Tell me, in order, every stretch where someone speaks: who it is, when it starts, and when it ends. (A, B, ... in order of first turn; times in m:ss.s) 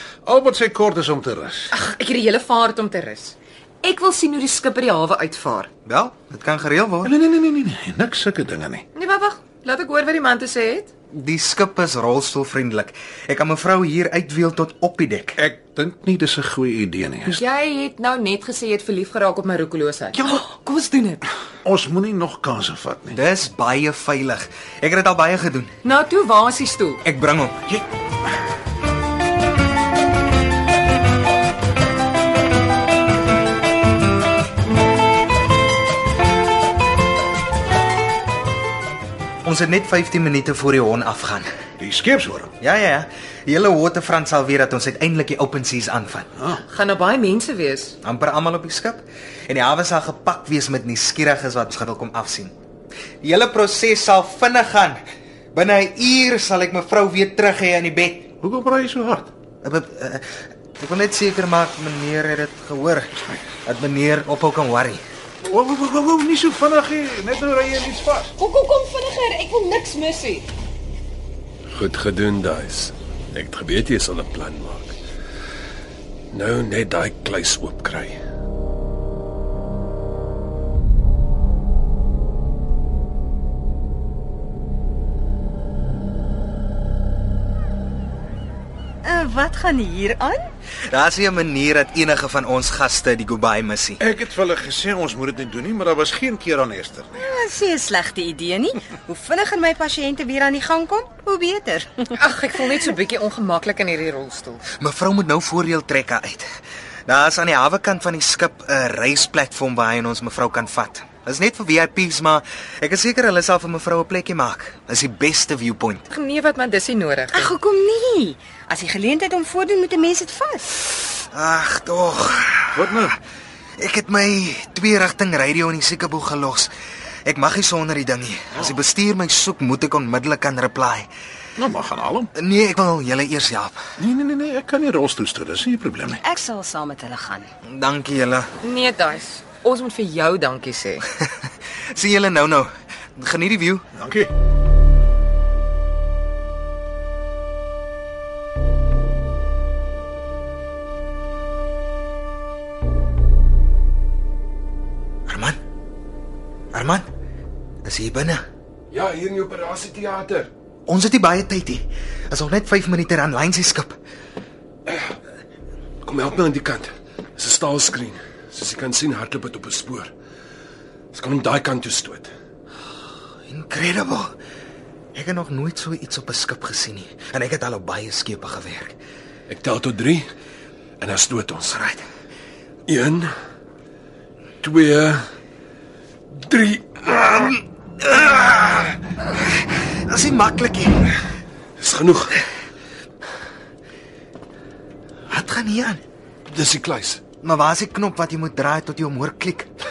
0:00.2-0:01.7 A
0:01.7-0:05.7 B
0:05.8-0:07.1 C
0:07.0-0:08.8 A
0:08.9-0:10.9 B
0:11.1-0:15.4 C
0:15.4-0:17.4 A
0:17.3-0:21.2 B
0:21.6-0:23.2 A
0:23.1-0:25.7 C
0:25.8-0:27.0 B
0:27.0-0:27.6 C
0:39.4-0:41.5 C
0:41.8-0:42.5 A
0:42.6-0:46.3 C
0:46.7-0:48.0 B
0:48.0-0:52.5 C
0:53.2-0:55.0 C
0:55.5-0:58.3 C
0:58.4-0:59.3 A
0:59.6-1:05.0 C
1:05.4-1:08.3 A
1:08.4-1:10.5 B
1:11.7-1:15.0 D
1:16.3-1:18.2 D
1:29.0-1:30.5 E
1:30.9-1:34.0 C
1:34.0-1:37.2 A
1:37.1-1:42.0 E
1:42.1-1:44.6 B
1:44.8-1:46.5 C
1:47.1-1:56.0 C
1:56.1-1:57.5 B
1:57.3-2:00.7 E
2:01.2-2:03.1 C
2:02.7-2:03.1 A
2:03.8-2:06.7 C
2:07.2-2:11.1 C
2:11.6-2:12.3 A
2:12.4-2:13.8 C
2:14.0-2:16.2 A
2:16.2-2:17.5 E
2:17.7-2:18.5 C
2:18.6-2:21.0 B
2:21.9-2:23.8 C
2:24.0-2:24.3 A
2:35.3-2:35.6 C
2:36.7-2:37.0 C
2:37.8-2:38.4 C
2:38.9-2:40.5 D
2:40.9-2:44.0 C
2:44.9-2:45.2 D
2:46.0-2:50.1 D
2:51.1-2:52.3 D
2:53.5-2:54.3 C
2:55.1-2:58.9 C
2:59.5-3:00.2 D
3:01.0-3:01.8 D
3:01.7-3:02.0 C
3:02.9-3:03.3 D
3:04.6-3:05.3 D
3:06.3-3:07.6 D
3:08.0-3:08.5 C
3:08.5-3:08.9 D
3:10.0-3:11.1 C
3:11.8-3:12.4 D
3:15.3-3:16.0 C
3:16.5-3:17.2 D
3:17.4-3:19.7 C